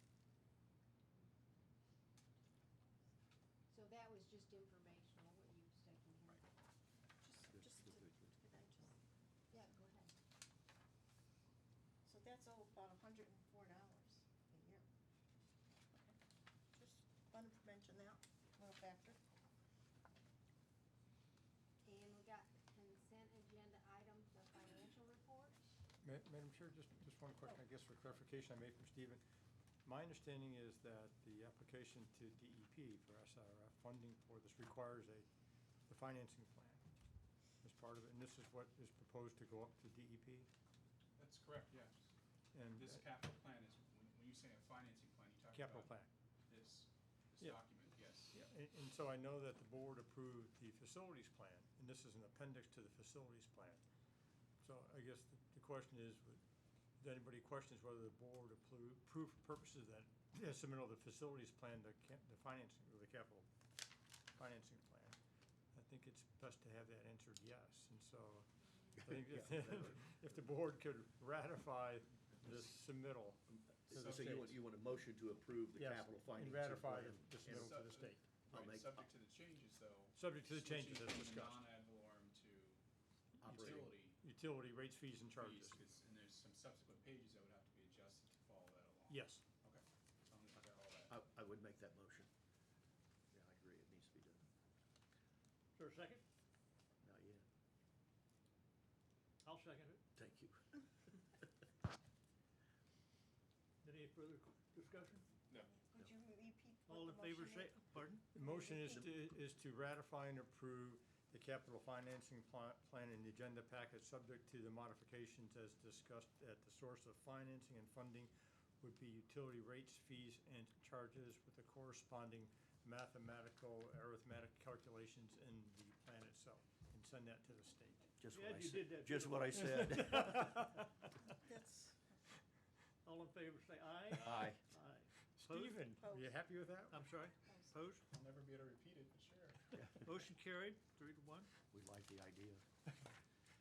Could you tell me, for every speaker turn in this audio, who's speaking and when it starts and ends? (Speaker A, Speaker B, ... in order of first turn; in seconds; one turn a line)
Speaker A: 3.7-6.4
Speaker B: 7.2-8.9
Speaker C: 7.5-8.3
Speaker A: 9.5-10.1
Speaker B: 12.1-14.9
Speaker B: 16.7-19.2
Speaker A: 21.9-25.6
Speaker D: 26.0-29.2
Speaker D: 29.9-35.3
Speaker D: 35.9-36.8
Speaker D: 37.6-40.5
Speaker E: 41.2-41.9
Speaker D: 42.5-43.0
Speaker E: 42.7-45.9
Speaker D: 45.5-46.1
Speaker E: 46.5-48.4
Speaker D: 48.3-53.8
Speaker D: 54.6-56.4
Speaker D: 57.0-63.5
Speaker D: 64.3-65.2
Speaker D: 65.7-68.5
Speaker C: 69.0-70.1
Speaker D: 69.0-74.4
Speaker C: 73.9-77.7
Speaker E: 73.9-74.5
Speaker D: 75.8-78.3
Speaker E: 77.5-82.8
Speaker C: 78.5-79.0
Speaker D: 80.2-81.6
Speaker C: 83.4-83.9
Speaker D: 83.4-85.8
Speaker E: 83.5-84.2
Speaker E: 85.4-91.1
Speaker D: 89.1-89.4
Speaker C: 91.1-92.3
Speaker C: 93.3-94.4
Speaker F: 95.8-96.2
Speaker C: 97.0-97.4
Speaker F: 99.4-100.0
Speaker C: 100.2-100.6
Speaker F: 103.8-105.3
Speaker B: 105.6-109.1
Speaker F: 106.9-108.3
Speaker D: 108.3-128.1
Speaker C: 128.2-130.6
Speaker F: 128.3-130.3
Speaker B: 131.4-132.2
Speaker F: 133.0-135.9
Speaker C: 134.2-134.6
Speaker D: 135.4-137.1
Speaker B: 136.0-136.4
Speaker F: 136.9-138.1
Speaker B: 137.5-137.7
Speaker E: 138.1-139.8
Speaker F: 139.9-141.5
Speaker C: 141.7-142.6